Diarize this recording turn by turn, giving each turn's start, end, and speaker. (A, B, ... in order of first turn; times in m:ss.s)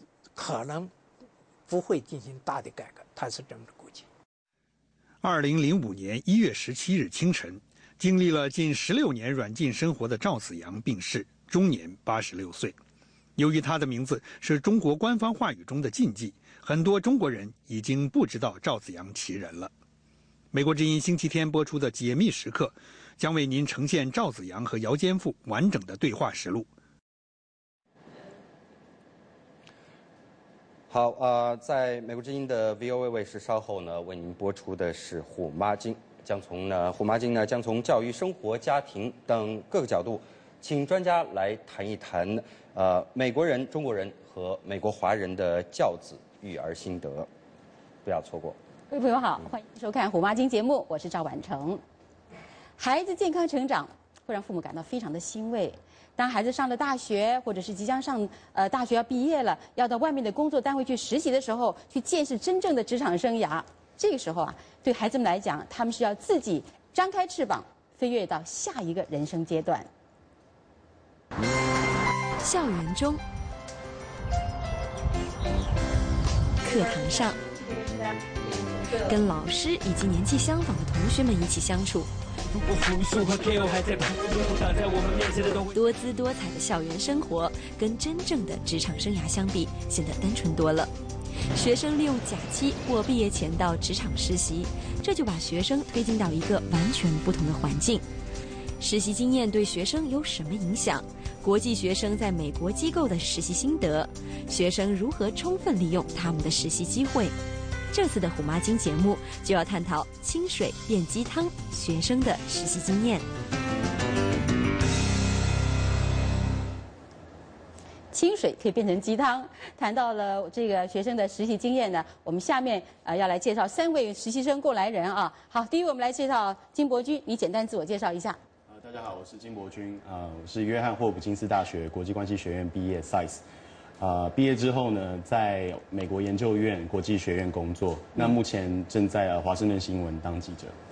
0:00.4-0:00.9 A
0:01.7-0:04.0 A
0:05.2-0:12.8 B
0:13.4-0:19.7 B
0:20.5-0:26.6 B
0:30.9-0:47.3 C
0:48.0-0:48.6 C
0:48.9-0:51.8 D
0:52.8-1:09.9 D
1:12.4-1:13.2 E
1:16.6-1:17.4 E
1:19.0-1:22.1 E
1:25.7-1:30.9 E
1:31.5-1:38.0 E
1:38.8-1:47.4 E
1:47.9-1:53.3 E
1:58.1-2:08.4 D
2:08.7-2:13.4 F
2:14.0-2:20.7 F